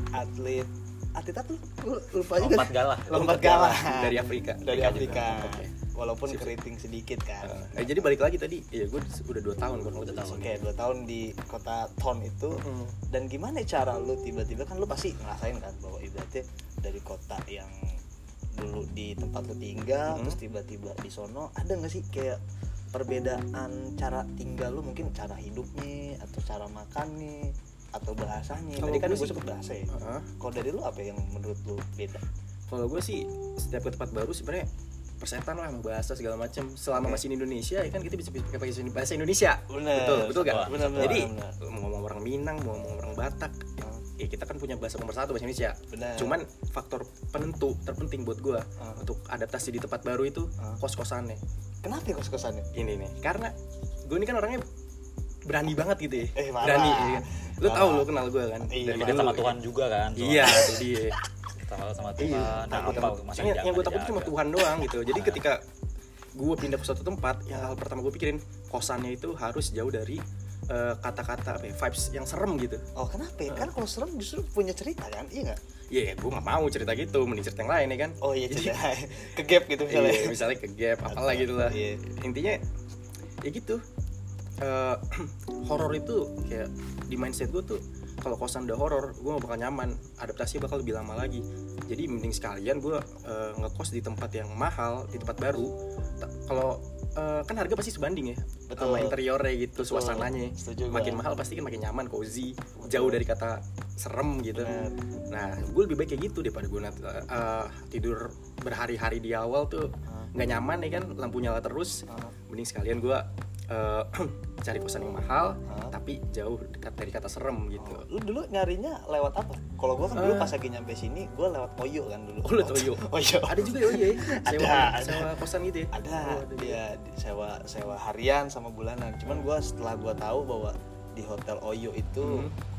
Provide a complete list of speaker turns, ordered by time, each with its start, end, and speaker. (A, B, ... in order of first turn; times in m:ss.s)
0:00.1-0:08.1 A
0:02.4-0:03.3 B
0:03.1-0:05.7 C
0:07.4-0:10.7 C
0:10.1-0:10.4 B
0:10.4-0:17.9 A
0:12.5-0:13.0 C
0:18.6-0:22.4 A
0:20.1-0:20.4 C
0:22.9-0:32.2 A
0:28.8-0:30.3 C
0:32.7-0:34.7 C
0:35.2-0:51.4 C
0:36.9-0:37.2 A
0:39.7-0:41.6 A
0:40.4-0:41.2 B
0:45.9-0:46.4 A
0:48.8-0:49.0 A
0:51.8-0:52.7 A
0:52.7-0:53.5 C
0:54.1-0:54.6 C
0:55.5-0:59.6 C
0:56.4-0:58.1 A
0:58.7-0:59.5 A
0:58.9-1:00.6 B
1:00.2-1:01.2 C
1:00.4-1:01.2 A
1:01.6-1:04.4 B
1:02.2-1:05.6 C
1:02.7-1:03.2 A
1:04.8-1:05.4 A
1:06.3-1:12.8 C
1:13.0-1:15.6 A
1:15.9-1:18.8 C
1:18.2-1:20.4 A
1:19.9-1:22.6 C
1:21.1-1:22.0 A
1:23.4-1:23.8 C
1:24.6-1:44.7 C
1:35.2-1:35.5 A
1:38.7-1:39.2 A
1:39.8-1:41.3 A
1:42.8-1:43.2 A
1:44.6-1:45.0 A
1:45.3-1:58.1 C
1:52.1-1:52.4 A
1:55.7-1:56.0 A
1:57.8-2:05.3 A
2:00.1-2:00.6 C
2:02.4-2:06.8 C
2:05.9-2:12.5 A
2:12.2-2:12.6 C